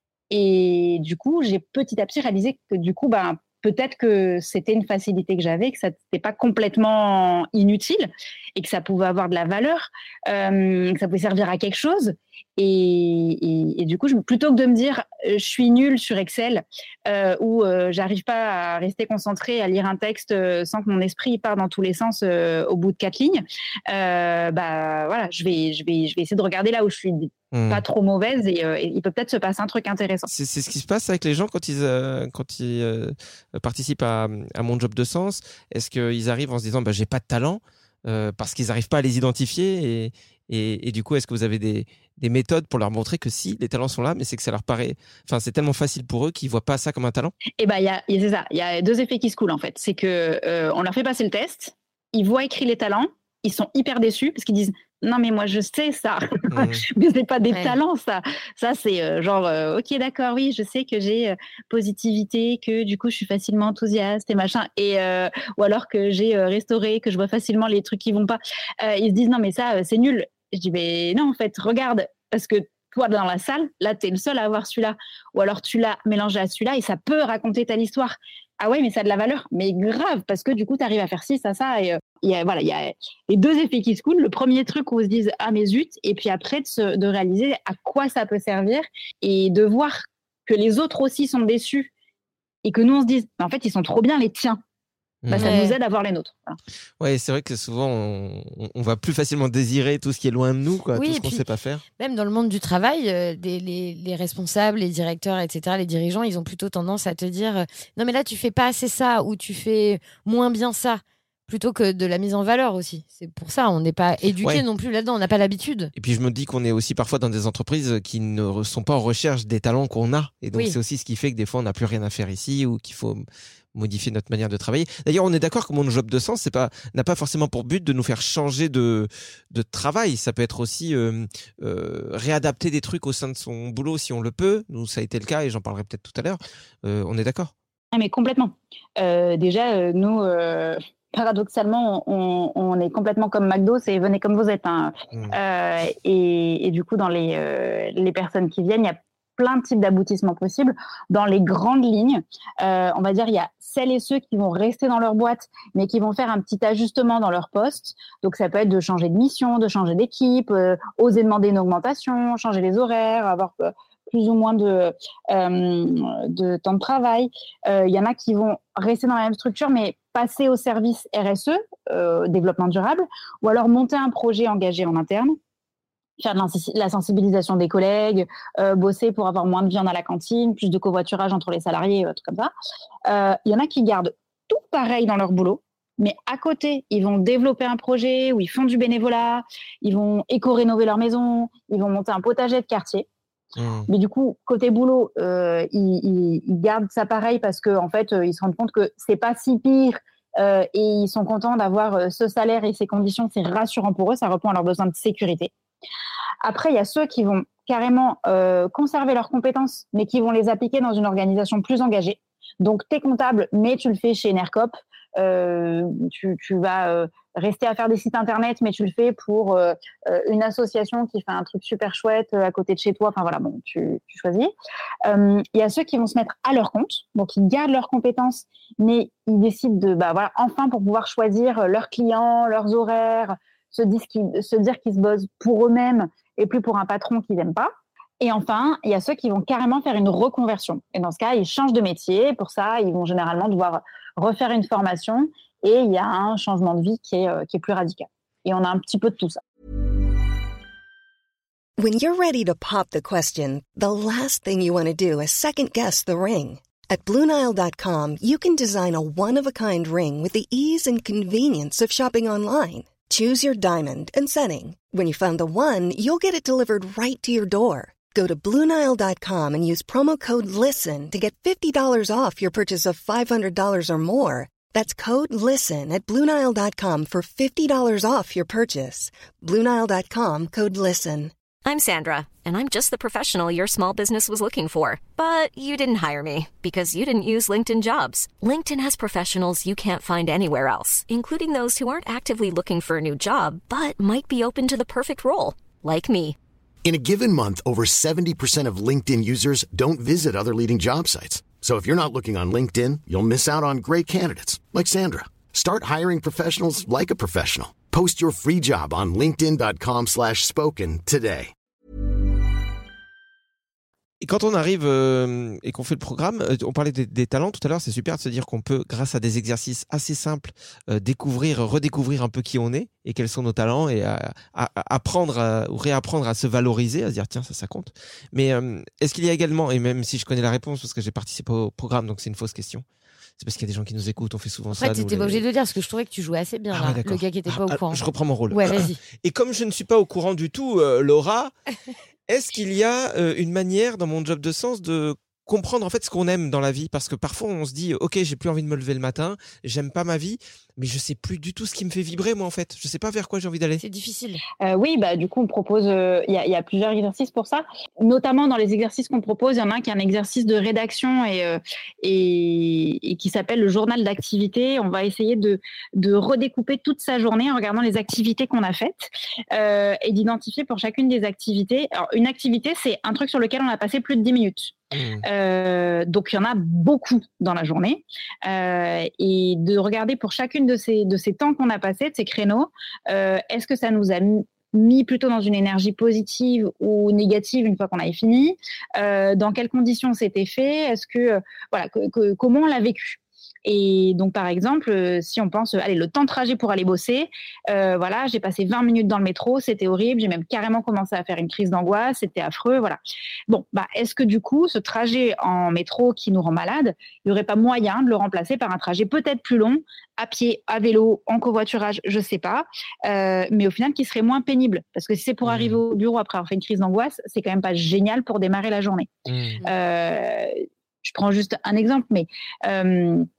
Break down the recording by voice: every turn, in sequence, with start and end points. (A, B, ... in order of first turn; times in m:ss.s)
0:00.3-0:30.3 A
0:27.5-0:27.8 B
0:30.3-0:47.4 B
0:47.6-1:31.9 A
0:56.5-0:56.8 B
0:57.5-0:57.8 C
1:32.6-1:34.6 A
1:35.2-1:35.5 B
1:35.3-1:36.6 A
1:35.3-1:35.8 C
1:37.0-1:41.8 B
1:40.9-1:41.4 C
1:42.0-1:55.9 C
1:55.9-2:17.5 B
2:17.9-2:55.4 A
2:56.2-3:02.5 A
3:03.1-3:13.1 A
3:13.6-3:13.9 B
3:13.9-3:25.5 A
3:26.4-3:44.5 A
3:45.0-4:09.4 A
4:11.8-4:41.3 D
4:41.6-4:56.4 E
4:56.8-5:11.5 F
5:14.2-5:32.8 B
5:33.4-5:35.4 B
5:34.7-5:39.0 C
5:36.7-5:41.5 B
5:42.3-5:53.8 B
5:53.8-5:54.4 C
5:54.6-6:59.1 A
6:14.9-6:15.2 B
6:55.4-6:55.8 B
6:59.2-6:59.6 B
6:59.6-7:03.3 A